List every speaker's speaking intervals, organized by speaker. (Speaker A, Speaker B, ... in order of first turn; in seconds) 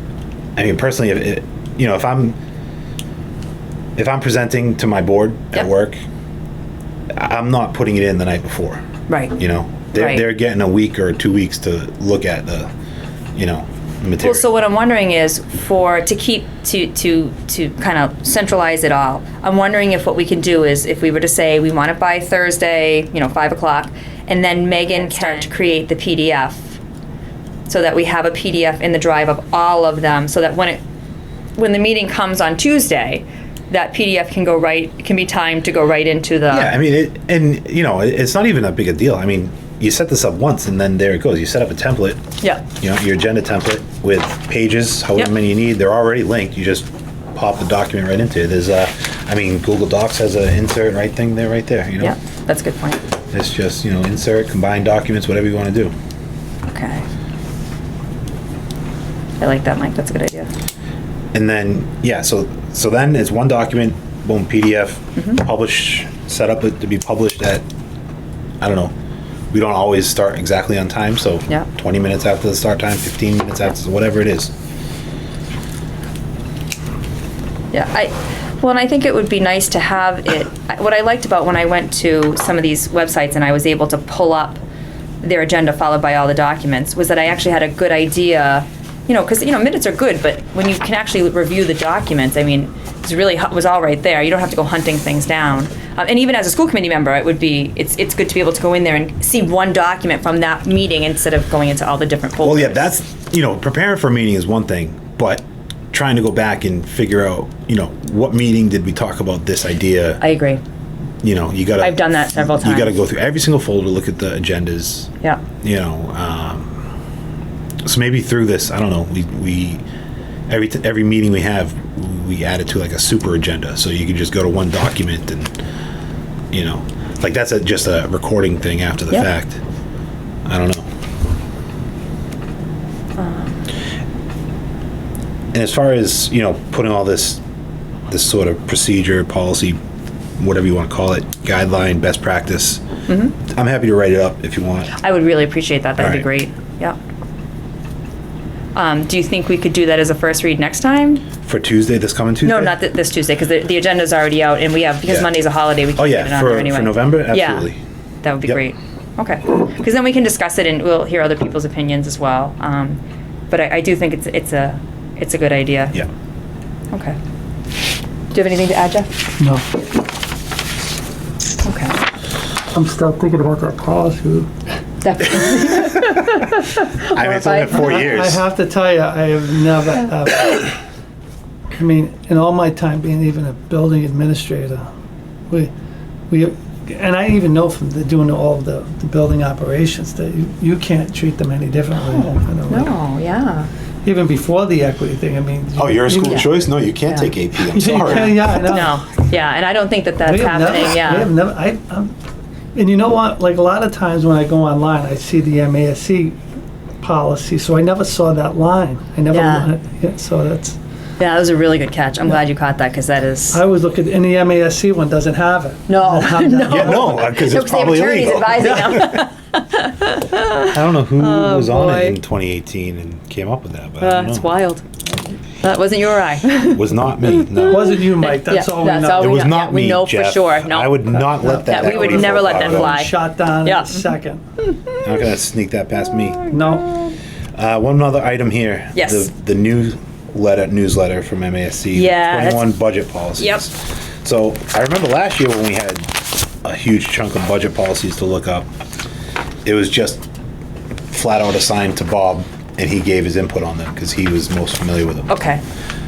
Speaker A: 0.6-2.4, 4.0-6.0, 7.2-8.8, 9.3-12.7, 13.3-14.5, 36.5-42.2, 42.8-52.1, 53.3-55.9, 61.3-67.6, 68.6-68.9, 69.5-74.5, 102.4-110.2, 111.2-116.8, 117.8-119.8, 120.5-125.5, 126.5-129.6, 130.4-130.9, 135.5-137.4, 138.1-139.8, 140.4-142.8, 143.4-144.9, 146.0-146.2, 151.4-152.8, 155.0-155.3, 155.9-157.8, 177.0-178.4, 195.8-198.5, 216.7-219.2, 220.6-224.5, 226.6-228.1, 229.1-233.0, 235.0-236.5, 237.6-246.1, 246.6-248.7, 249.6-250.2, 251.1-255.3
Speaker B: 9.1-9.3, 9.9-10.2, 14.2-26.8, 27.7-30.8, 31.6-36.7, 52.0-53.0, 56.7-57.0, 59.4-60.5, 77.7-84.6, 85.2-102.8, 110.2-110.6, 111.8-112.9, 133.2-133.6, 143.1-143.3, 145.0-147.0, 148.7-151.2, 152.4-157.7, 158.2-165.9, 166.9-167.2, 168.3-169.1, 171.6-172.0, 175.0-176.2, 177.1-178.2, 192.0-193.7, 196.2-196.4, 198.0-201.3, 209.3-209.7, 211.2-213.6, 215.9-222.2, 224.0-224.9, 225.6-234.1, 238.9-239.3, 241.9-242.7, 243.4-243.6, 255.3-255.6
Speaker C: 169.4-169.7, 172.7-174.5, 177.7-180.8, 181.7-184.8, 186.3-192.9, 194.0-196.5, 197.7-199.0, 200.2-202.1, 202.7-206.4, 207.0-210.8, 213.5-217.3, 218.6-219.2, 227.7-229.5, 231.2-234.4, 236.5-236.9